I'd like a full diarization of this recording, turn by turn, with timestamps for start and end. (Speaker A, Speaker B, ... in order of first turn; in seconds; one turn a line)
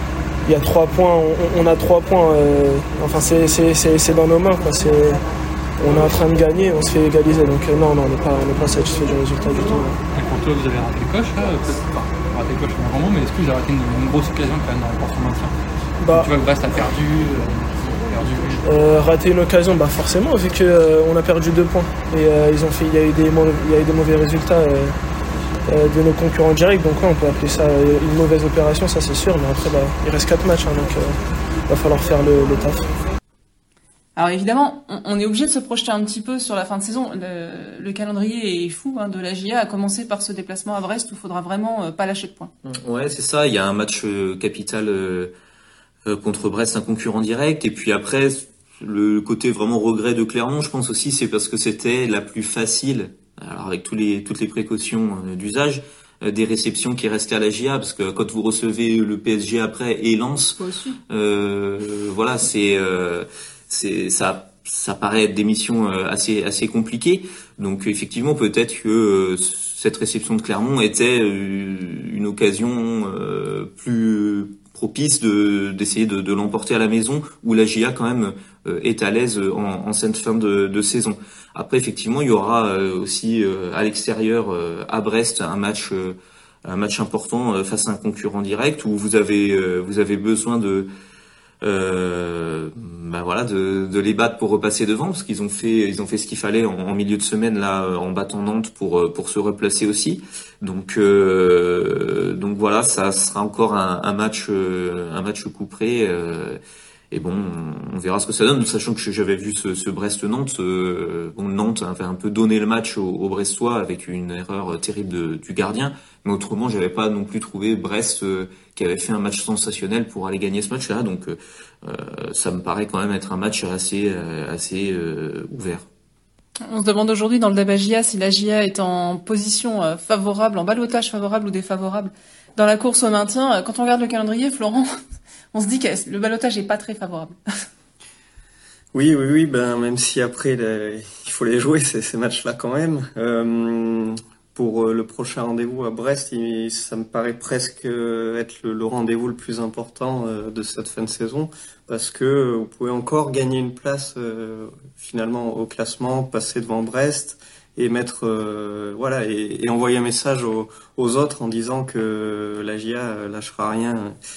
Speaker A: 0.5-5.2
Speaker A: 5.8-10.0
Speaker B: 10.1-15.5
Speaker A: 16.0-16.3
Speaker B: 16.1-18.7
Speaker A: 18.7-25.0
Speaker A: 25.7-32.9
Speaker C: 34.2-42.5
Speaker D: 42.6-45.3
Speaker D: 46.0-60.6
Speaker C: 60.6-61.0
Speaker D: 61.1-90.9
Speaker D: 91.6-106.6
Speaker D: 107.1-125.9
Speaker C: 126.7-134.9
Speaker C: 135.5-137.3
Speaker E: 138.9-164.2